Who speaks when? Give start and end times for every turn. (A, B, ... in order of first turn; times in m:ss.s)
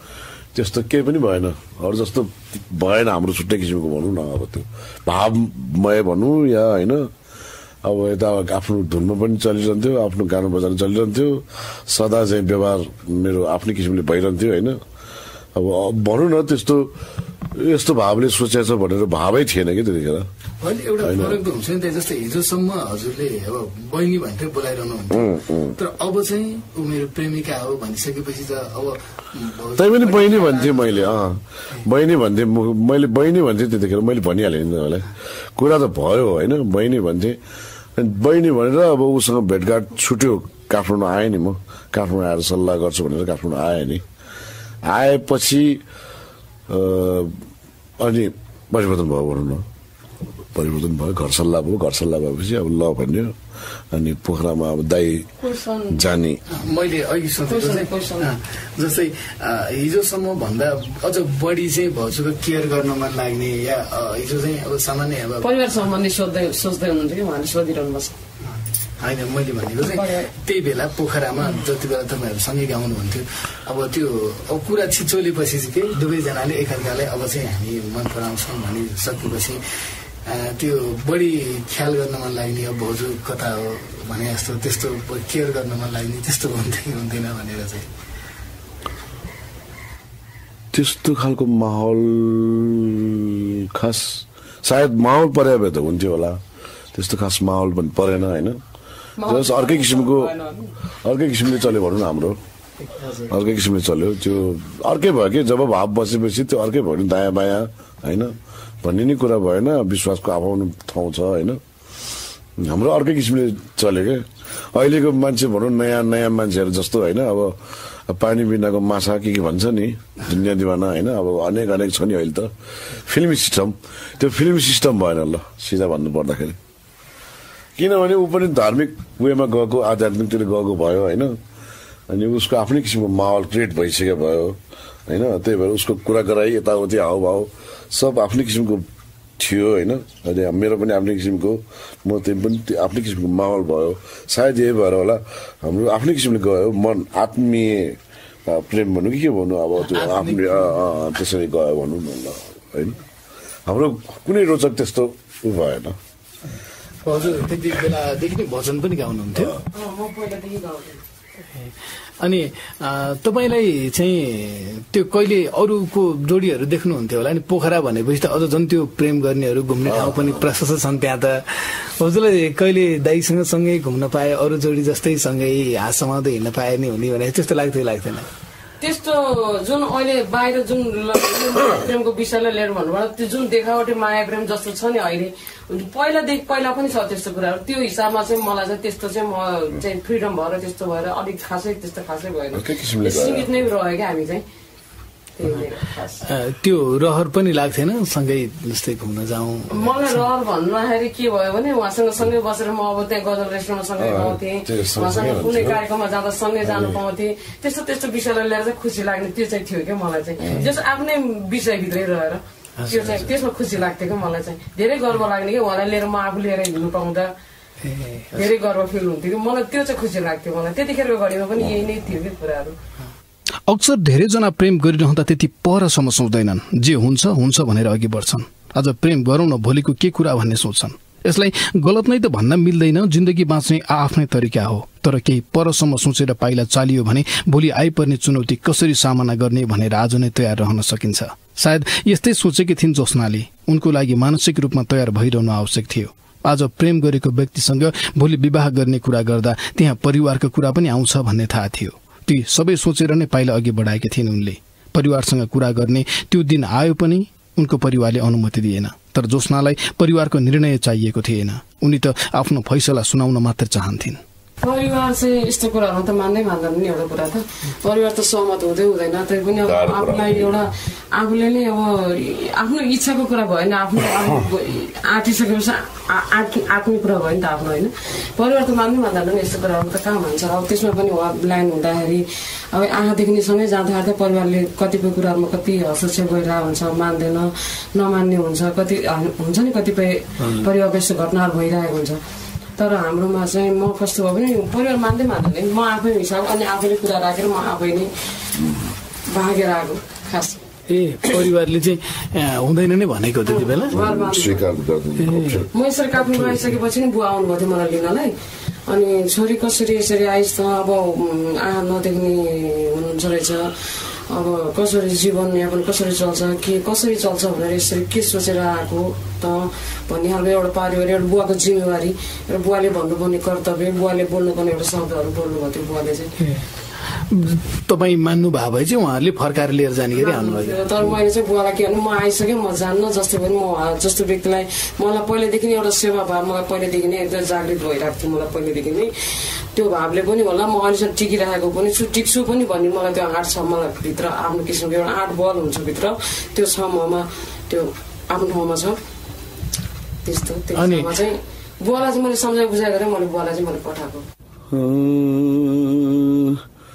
0:00.5-0:07.1 A
0:07.8-0:14.8 A
0:15.5-0:16.9 A
0:17.5-0:20.3 A
0:20.6-0:31.2 B
0:21.0-0:21.4 A
0:25.1-0:25.7 A
0:29.8-0:37.4 A
0:38.0-0:44.0 A
0:44.8-0:45.8 A
0:46.7-0:47.4 A
0:48.0-0:49.6 A
0:50.5-0:53.4 A
0:53.9-0:55.3 A
0:55.4-0:56.0 C
0:55.9-0:56.4 A
0:56.5-1:05.5 B
0:57.5-0:58.3 C
1:05.4-1:08.1 C
1:09.0-1:19.6 B
1:09.8-1:10.3 C
1:20.2-1:27.9 B
1:30.7-1:36.4 A
1:36.9-1:38.6 A
1:39.2-1:40.7 C
1:39.2-1:40.3 A
1:41.0-1:42.4 A
1:42.8-1:43.3 B
1:43.3-1:51.6 A
1:52.6-2:06.6 A
2:07.8-2:11.4 A
2:12.1-2:18.9 A
2:19.4-2:33.0 A
2:29.8-2:30.8 B
2:33.6-2:36.0 A
2:37.0-2:39.6 B
2:39.7-2:41.0 C
2:41.5-2:58.3 B
2:49.9-2:50.3 A
2:58.8-3:14.4 C
3:12.5-3:13.5 A
3:15.4-3:16.2 C
3:16.2-3:20.2 B
3:19.7-3:37.3 C
3:24.0-3:25.8 A
3:26.6-3:27.0 A
3:32.8-3:33.2 B
3:37.8-3:38.4 B
3:38.3-3:42.8 C
3:43.7-4:24.2 D
4:24.6-4:52.2 C
4:29.6-4:30.7 A
4:52.8-4:58.1 C
4:59.3-5:00.6 C
5:00.9-5:04.0 B
5:03.4-5:04.7 C
5:03.9-5:05.7 A
5:05.2-5:05.6 B
5:05.7-5:08.3 C
5:08.9-5:13.7 C
5:14.3-5:26.3 C
5:26.4-5:30.9 B
5:30.1-5:39.1 C
5:39.7-5:49.0 C
5:50.2-5:54.2 C
5:50.7-5:51.1 B
5:54.7-5:56.6 A